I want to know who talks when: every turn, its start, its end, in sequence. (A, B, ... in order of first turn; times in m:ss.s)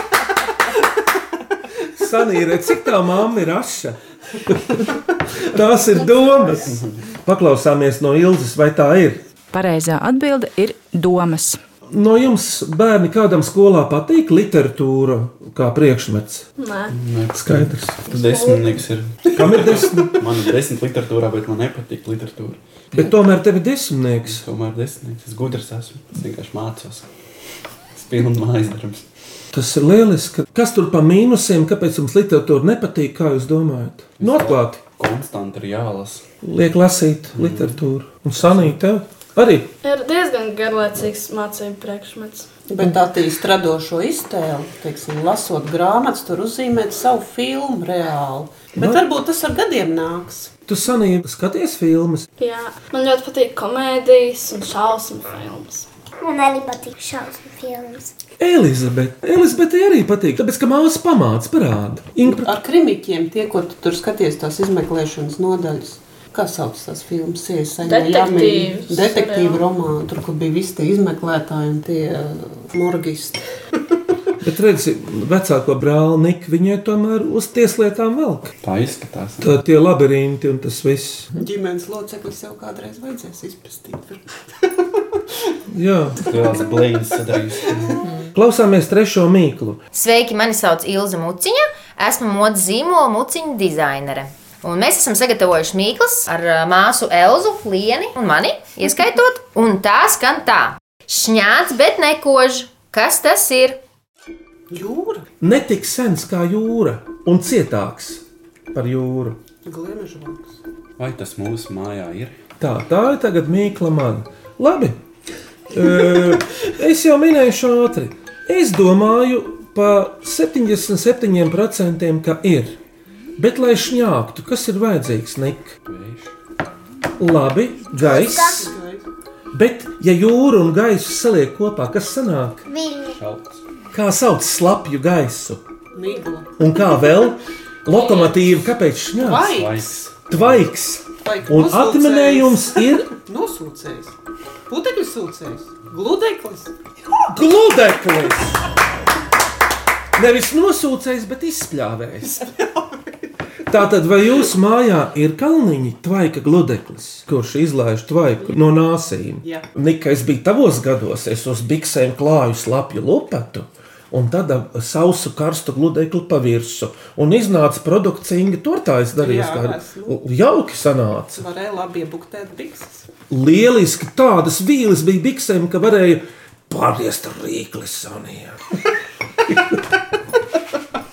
0:02.0-0:09.2 A
0:09.5-0:11.6 B
0:11.9-0:16.5 A
0:16.6-0:17.0 C
0:16.9-0:22.6 D
0:17.3-0:18.0 A
0:18.1-0:18.7 C
0:19.3-0:20.2 A
0:22.9-0:24.4 A
0:24.3-0:27.1 D
0:27.9-0:29.0 D
0:29.5-0:34.8 A
0:34.2-0:36.2 D
0:36.4-0:39.7 A
0:37.4-0:37.8 D
0:39.8-0:42.5 C
0:42.7-0:50.5 E
0:48.8-0:49.0 A
0:50.7-0:52.3 A
0:52.4-0:55.9 C
0:56.2-0:58.1 F
0:58.4-1:02.5 A
1:02.2-1:13.4 E
1:07.8-1:09.6 C
1:14.4-1:18.5 A
1:18.6-1:19.5 D
1:19.4-1:21.3 A
1:21.4-1:25.6 E
1:25.7-1:26.2 A
1:26.2-1:28.0 D
1:28.0-1:28.3 G
1:28.3-1:29.8 A
1:29.9-1:43.8 G
1:44.7-1:45.3 E
1:45.4-1:49.4 A
1:49.6-1:50.6 E
1:51.0-1:52.4 D
1:52.6-1:55.0 A
1:55.7-2:02.8 A
2:03.4-2:05.8 A
2:05.9-2:06.3 D
2:07.2-2:08.7 A
2:08.0-2:08.6 F
2:08.1-2:09.0 E
2:09.5-2:12.6 A
2:12.7-2:13.2 F
2:13.0-2:13.6 D
2:13.9-2:15.6 A
2:15.9-2:16.5 E
2:16.6-2:19.6 A
2:19.2-2:20.0 E
2:19.4-2:20.7 D
2:20.3-2:23.1 A
2:21.2-2:24.2 E
2:24.7-2:26.8 E
2:27.3-2:28.6 A
2:30.2-2:32.5 A
2:32.4-2:33.1 E
2:33.7-2:51.4 A
2:49.2-2:50.2 E
2:51.4-2:53.1 E
2:53.3-2:58.6 A